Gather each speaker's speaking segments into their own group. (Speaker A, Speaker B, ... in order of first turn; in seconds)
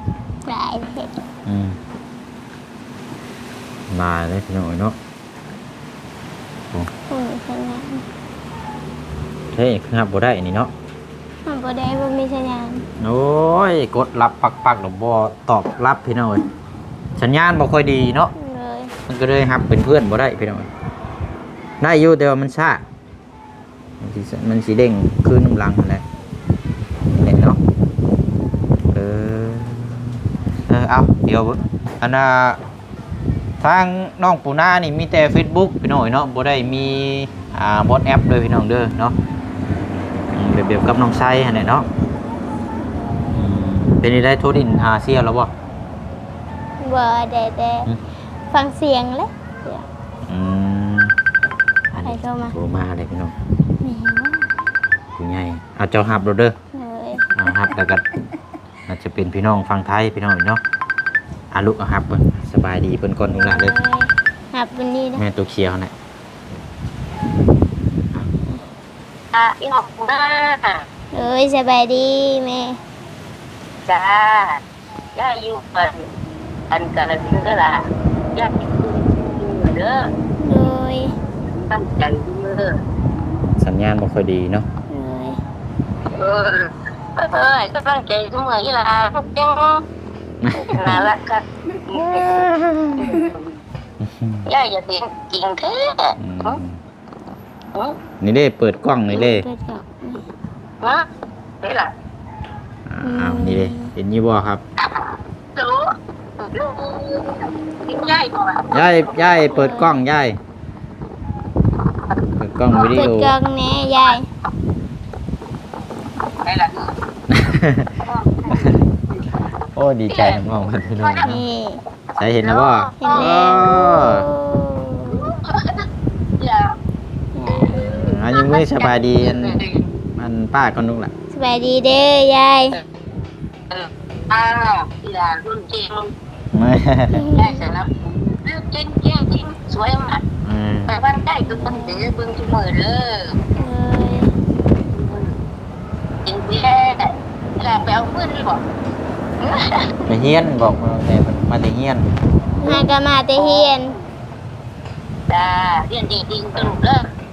Speaker A: 0.4-1.1, 7.1-8.0, 11.4-12.8, 18.3-18.9, 46.8-47.9, 48.5-49.9, 52.0-52.5, 53.8-54.4, 56.7-57.3, 63.3-65.2, 71.1-72.8, 80.4-81.1, 84.9-85.4, 90.5-91.0, 99.1-100.2, 103.0-103.9, 109.5-110.0, 112.8-114.3, 121.2-121.8, 123.0-125.3, 127.3-127.8, 131.3-132.8, 137.1-137.6, 141.4-142.1, 143.6-144.3, 152.6-153.9
Speaker B: 1.4-1.8, 3.9-5.0, 9.5-10.7, 13.0-16.4, 17.2-18.3, 19.1-20.7, 21.8-22.8, 24.0-26.0, 27.1-27.6, 28.9-32.6, 33.6-39.1, 40.3-41.9, 43.3-45.5, 50.2-51.1, 51.9-53.3, 55.1-56.5, 57.3-58.0, 58.9-60.6, 61.5-63.7, 65.1-65.9, 83.6-84.7, 90.4-91.1, 91.9-93.2, 94.0-94.5, 96.2-96.8, 98.2-99.5, 102.8-104.6, 108.7-110.4, 112.4-113.3, 117.3-118.0, 118.5-118.8, 119.7-121.4, 122.2-124.2, 127.7-131.1, 136.5-137.2, 140.4-140.9, 150.1-152.0
Speaker C: 69.3-70.8, 73.8-74.6, 75.1-76.1, 76.7-80.1, 81.5-82.8, 86.1-89.8, 90.7-92.5, 93.0-93.5, 94.4-96.6, 101.6-101.9, 104.8-109.4, 116.4-116.9, 118.0-119.3, 120.1-120.4, 121.0-121.4, 122.4-123.8, 125.1-125.8, 126.4-126.8, 127.6-129.9, 133.7-136.1, 137.3-140.2, 140.9-143.4, 144.8-145.3, 146.2-148.6, 149.4-149.9, 152.6-153.8, 155.3-157.1